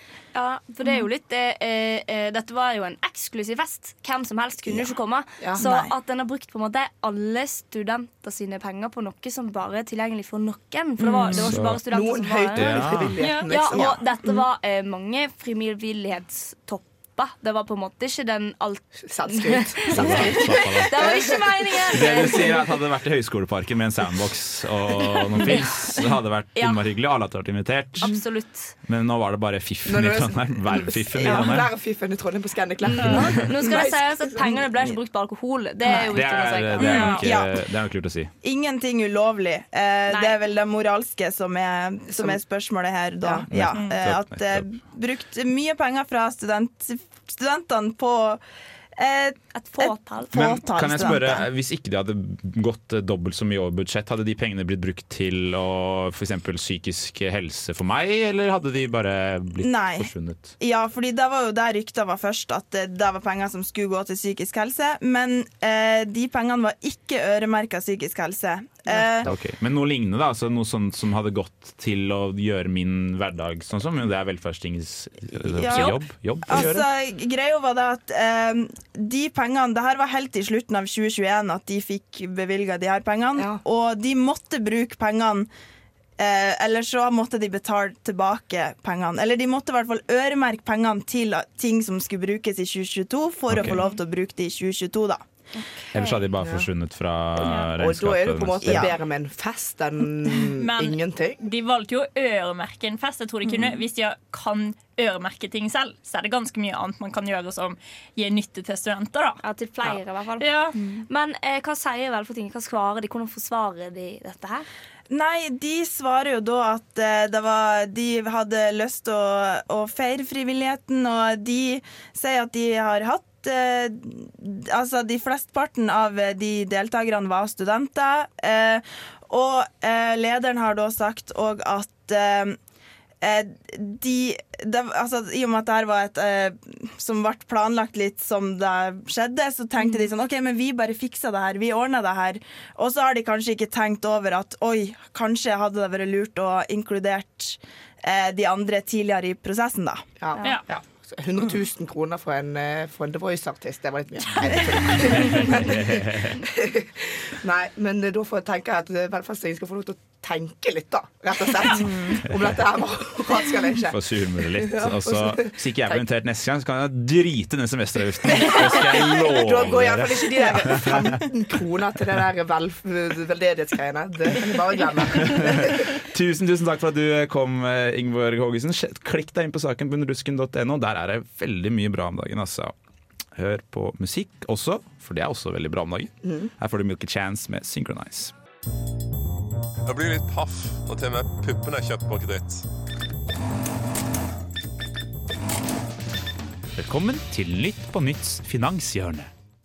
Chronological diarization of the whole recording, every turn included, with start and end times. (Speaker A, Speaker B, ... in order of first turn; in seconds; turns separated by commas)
Speaker A: 0.3-12.9, Speaker B: 5.5-5.9, Speaker C: 11.0-13.9, Speaker D: 11.3-11.8, Speaker D: 12.6-13.1, Speaker E: 13.2-13.5, Speaker A: 13.5-22.5, Speaker B: 13.7-14.0, Speaker C: 19.0-21.8, Speaker D: 19.9-21.0, Speaker D: 21.9-28.1, Speaker A: 26.6-26.8, Speaker A: 28.0-28.7, Speaker D: 28.9-31.7, Speaker C: 29.9-34.9, Speaker A: 32.9-37.2, Speaker D: 33.1-33.5, Speaker D: 35.9-38.3, Speaker E: 36.8-37.2, Speaker B: 36.8-37.6, Speaker B: 38.4-48.4, Speaker A: 40.1-40.4, Speaker C: 42.1-42.4, Speaker C: 43.2-43.5, Speaker D: 43.5-44.7, Speaker B: 49.0-51.5, Speaker A: 49.5-50.3, Speaker D: 50.3-60.6, Speaker B: 59.6-69.3, Speaker D: 69.2-76.9, Speaker B: 75.4-85.5, Speaker C: 83.4-83.6, Speaker B: 86.2-95.2, Speaker D: 93.5-93.8, Speaker A: 95.5-96.2, Speaker D: 95.9-98.9, Speaker C: 96.4-96.7, Speaker C: 97.5-101.4, Speaker B: 98.6-98.9, Speaker E: 100.6-109.4, Speaker A: 109.4-114.7, Speaker E: 110.4-110.8, Speaker B: 115.1-132.6, Speaker B: 133.2-150.1, Speaker C: 150.2-164.0, Speaker D: 155.1-156.4, Speaker D: 163.9-171.2, Speaker C: 164.6-165.6, Speaker C: 168.4-175.9, Speaker D: 175.2-182.7, Speaker D: 183.3-188.3, Speaker C: 186.2-186.5, Speaker F: 189.9-192.6, Speaker D: 196.7-199.3